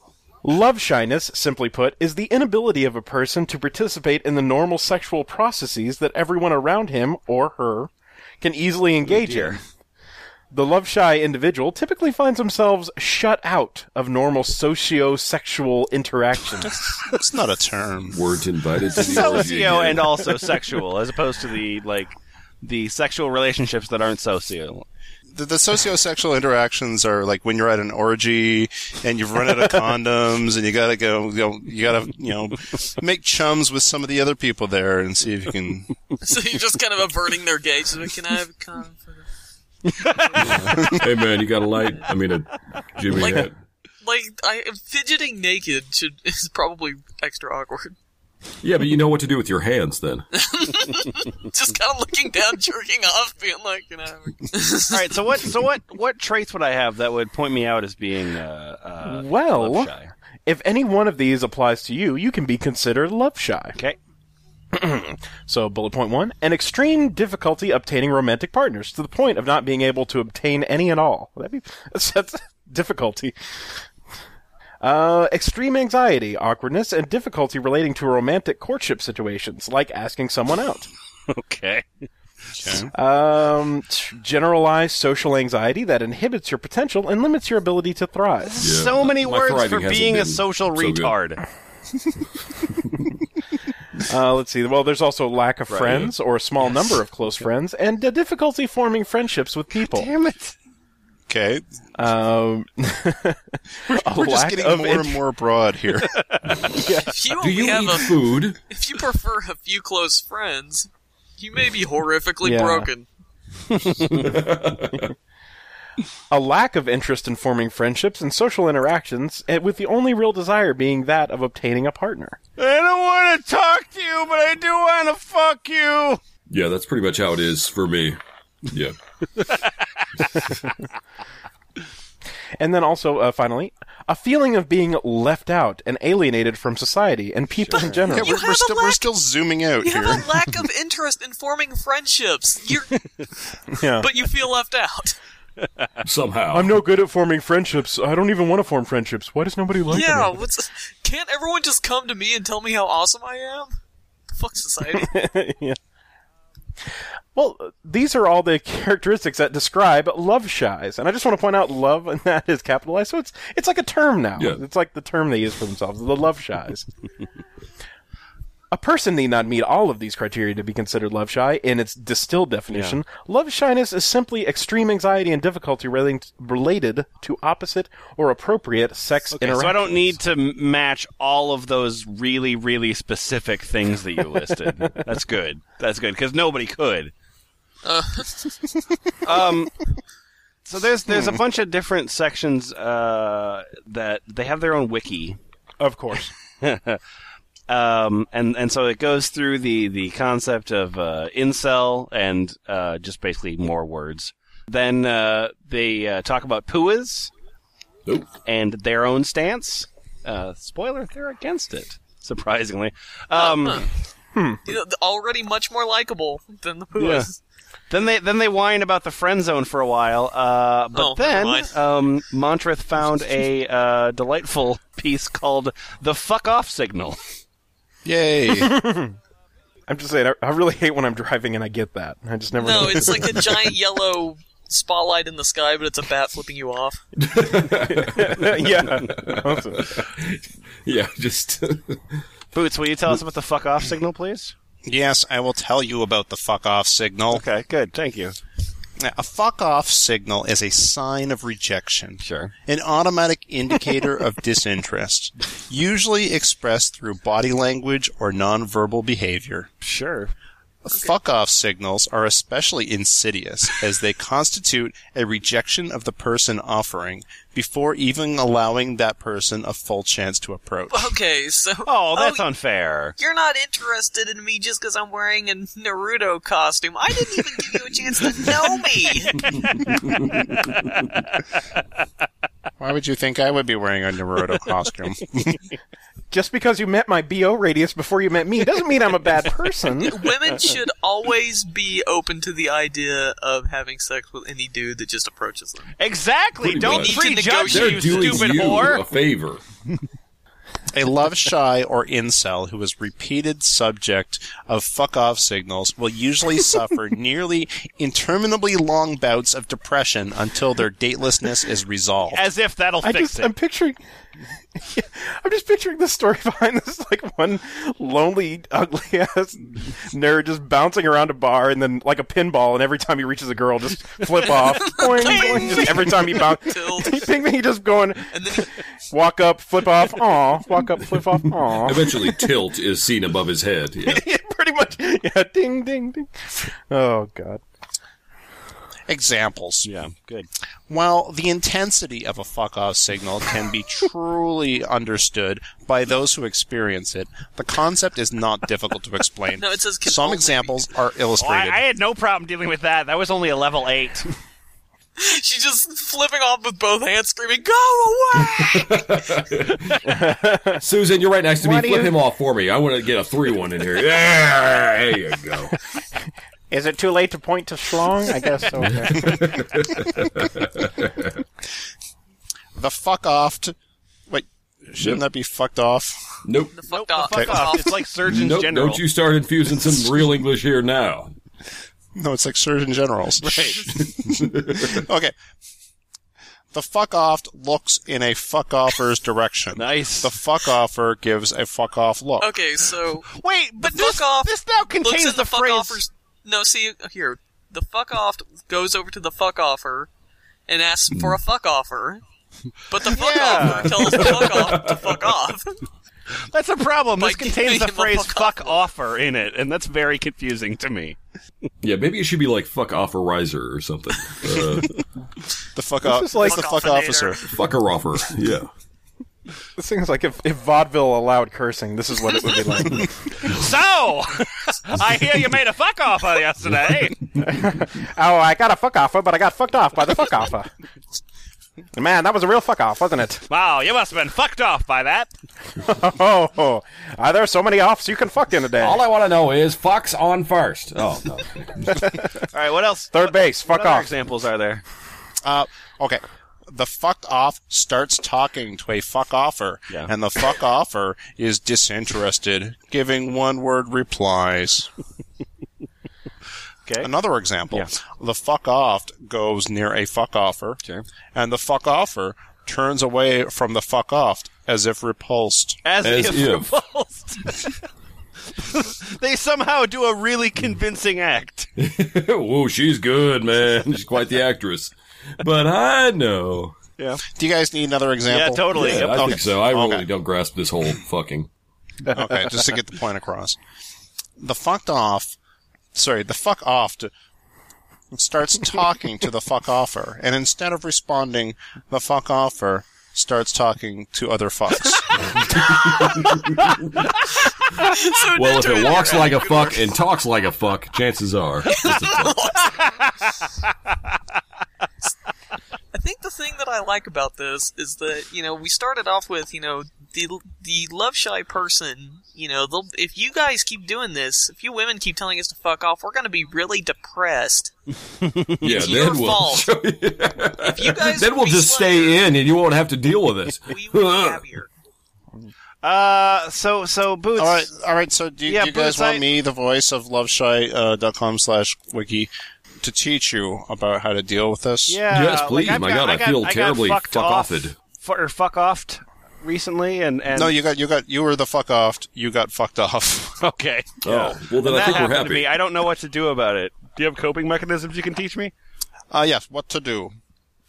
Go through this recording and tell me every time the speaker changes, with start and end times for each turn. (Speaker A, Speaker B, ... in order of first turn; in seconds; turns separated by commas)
Speaker A: 0.4-9.6, Speaker A: 10.5-16.8, Speaker B: 16.6-18.2, Speaker C: 18.1-20.3, Speaker D: 18.9-24.9, Speaker B: 25.3-35.9, Speaker E: 36.2-39.2, Speaker D: 39.9-40.9, Speaker E: 40.0-41.0, Speaker C: 40.6-43.6, Speaker E: 44.0-48.0, Speaker C: 48.6-50.2, Speaker E: 50.3-55.2, Speaker D: 54.9-60.1, Speaker A: 59.0-59.9, Speaker A: 60.5-63.8, Speaker A: 64.7-73.3, Speaker A: 74.8-80.9, Speaker D: 81.3-81.9, Speaker B: 82.6-82.9, Speaker A: 82.9-88.7, Speaker D: 88.4-91.4, Speaker C: 88.6-91.1, Speaker A: 94.0-100.1, Speaker C: 95.7-96.1, Speaker D: 99.9-100.5, Speaker B: 101.3-101.6, Speaker A: 102.0-105.2, Speaker B: 103.9-106.1, Speaker D: 106.0-106.7, Speaker A: 106.7-107.1, Speaker E: 107.1-113.0, Speaker C: 107.3-108.6, Speaker A: 112.4-112.9, Speaker D: 113.7-114.3, Speaker C: 113.9-115.1, Speaker A: 116.3-122.4, Speaker D: 122.6-126.2, Speaker C: 126.5-129.0, Speaker A: 132.6-138.5, Speaker D: 137.6-138.0, Speaker B: 138.1-140.3, Speaker E: 138.1-139.1, Speaker E: 139.8-143.1, Speaker A: 143.8-144.1, Speaker E: 144.0-145.2, Speaker D: 145.6-145.9, Speaker C: 146.0-146.8, Speaker A: 146.5-150.4, Speaker E: 149.9-153.7, Speaker E: 154.3-155.1, Speaker A: 154.9-155.8, Speaker A: 157.3-166.9, Speaker C: 164.3-164.6, Speaker A: 168.7-180.2, Speaker D: 172.7-173.0, Speaker D: 179.3-187.1, Speaker E: 187.8-188.6, Speaker D: 189.2-189.7, Speaker D: 190.7-195.4, Speaker A: 195.8-196.3, Speaker D: 196.6-197.0, Speaker D: 197.7-207.3, Speaker C: 208.1-208.3, Speaker D: 208.4-213.8, Speaker E: 213.4-213.8, Speaker A: 214.3-214.7, Speaker E: 214.7-217.4, Speaker D: 216.9-217.3, Speaker D: 217.9-227.2, Speaker E: 220.9-221.7, Speaker B: 228.0-228.7, Speaker A: 228.5-229.1, Speaker A: 229.9-233.7, Speaker E: 232.6-237.0, Speaker C: 237.2-242.2, Speaker A: 237.9-240.0, Speaker D: 242.5-244.5, Speaker B: 244.8-247.4, Speaker D: 247.3-248.4, Speaker B: 249.0-259.7, Speaker D: 252.2-252.5, Speaker D: 259.8-260.3, Speaker B: 260.8-271.1, Speaker E: 270.9-272.5, Speaker D: 271.8-273.1, Speaker E: 273.2-279.9, Speaker D: 279.5-281.2, Speaker B: 282.8-285.6, Speaker A: 286.3-290.3, Speaker E: 290.0-295.9, Speaker D: 296.0-299.0, Speaker C: 296.6-299.6, Speaker E: 296.8-298.6, Speaker B: 300.9-312.4, Speaker D: 312.3-313.5, Speaker A: 313.0-314.0, Speaker A: 314.8-332.4, Speaker E: 324.6-327.3, Speaker D: 325.5-325.9, Speaker E: 328.3-328.7, Speaker C: 331.1-334.2, Speaker A: 334.0-337.6, Speaker B: 339.1-339.9, Speaker D: 339.8-340.5, Speaker B: 340.9-351.8, Speaker E: 349.6-350.9, Speaker D: 351.4-354.3, Speaker E: 355.2-359.1, Speaker C: 358.4-360.0, Speaker A: 360.0-360.8, Speaker C: 360.8-365.7, Speaker D: 361.7-362.0, Speaker A: 366.7-369.4, Speaker C: 368.8-371.4, Speaker B: 372.8-373.7, Speaker B: 374.3-376.2, Speaker C: 376.4-376.7, Speaker E: 376.8-378.1, Speaker D: 376.9-379.0, Speaker C: 378.2-381.3, Speaker B: 382.1-385.3, Speaker D: 383.4-383.9, Speaker C: 384.0-385.0, Speaker B: 386.7-392.5, Speaker D: 389.7-390.3, Speaker E: 392.4-393.3, Speaker D: 393.3-396.0, Speaker E: 393.8-400.1, Speaker E: 400.7-402.2, Speaker C: 401.1-401.4, Speaker E: 402.9-405.8, Speaker D: 403.1-404.3, Speaker C: 403.9-405.3, Speaker D: 406.4-411.1, Speaker E: 407.2-408.8, Speaker C: 411.8-415.0, Speaker B: 415.7-417.4, Speaker A: 416.0-416.7, Speaker E: 416.4-417.5, Speaker C: 417.5-418.7, Speaker A: 419.8-423.5, Speaker D: 423.4-427.3, Speaker A: 427.4-430.7, Speaker A: 431.9-433.4, Speaker D: 433.5-435.3, Speaker A: 435.8-439.0, Speaker C: 438.8-442.0, Speaker D: 442.5-444.8, Speaker A: 443.1-444.1, Speaker B: 445.4-454.9, Speaker B: 457.0-460.8, Speaker B: 461.3-465.8, Speaker D: 465.8-467.8, Speaker C: 466.0-466.7, Speaker D: 468.5-471.7, Speaker C: 471.8-476.8, Speaker B: 477.4-480.1, Speaker D: 478.3-479.3, Speaker C: 478.7-481.5, Speaker B: 482.1-483.6, Speaker B: 484.4-485.4, Speaker B: 485.9-487.1, Speaker B: 488.1-495.2, Speaker C: 495.3-497.1, Speaker E: 497.5-499.9, Speaker C: 497.8-502.5, Speaker E: 501.7-503.0, Speaker D: 502.8-503.3, Speaker E: 505.9-517.7, Speaker D: 518.2-518.6, Speaker C: 518.6-524.4, Speaker E: 518.6-519.7, Speaker E: 520.6-522.2, Speaker E: 523.7-524.7, Speaker D: 525.8-527.7, Speaker B: 527.4-532.3, Speaker D: 528.5-529.2, Speaker B: 532.8-535.0, Speaker D: 534.9-540.5, Speaker C: 535.1-537.8, Speaker B: 540.3-543.4, Speaker D: 543.4-548.5, Speaker C: 544.0-545.5, Speaker B: 549.1-550.1